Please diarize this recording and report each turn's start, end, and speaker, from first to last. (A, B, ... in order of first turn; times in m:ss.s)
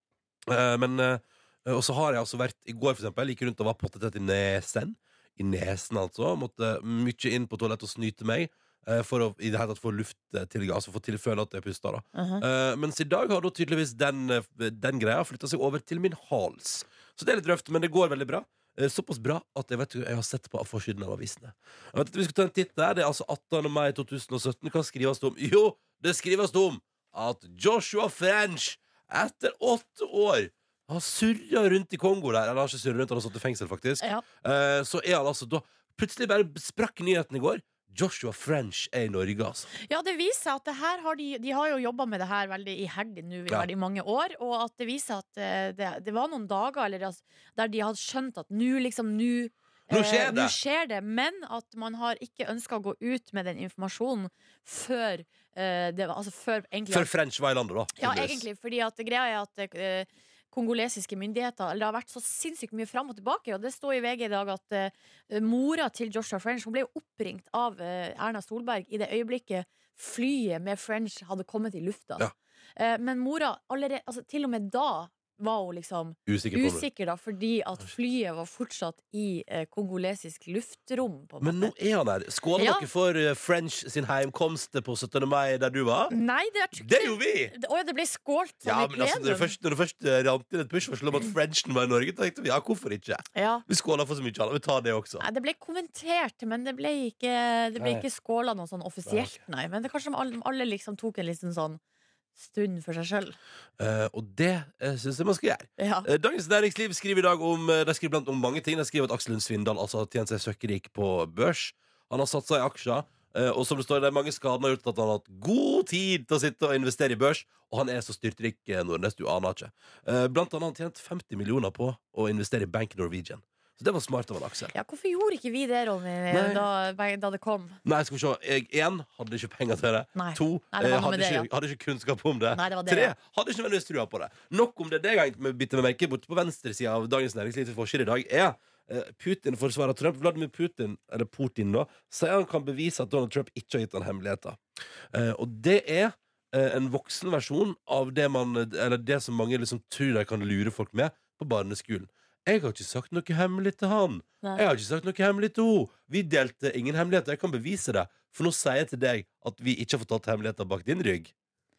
0:00.5-0:39.7 A
0:12.1-0:12.4 B
0:39.8-0:57.1 B
0:49.9-0:50.6 A
0:56.9-0:58.4 A
0:58.0-1:21.7 B
1:16.3-1:16.8 A
1:21.4-1:26.1 A
1:22.6-1:22.9 B
1:26.1-1:29.5 B
1:26.7-1:27.5 A
1:28.6-1:35.2 A
1:33.3-1:33.6 B
1:35.2-1:41.8 B
1:37.8-1:38.0 A
1:39.0-1:39.4 A
1:42.4-1:43.4 B
1:43.8-2:04.7 A
1:45.8-1:46.1 B
2:04.7-2:07.8 B
2:06.3-2:06.6 A
2:07.8-2:24.6 A
2:10.1-2:11.5 B
2:12.5-2:13.1 B
2:25.1-2:41.3 A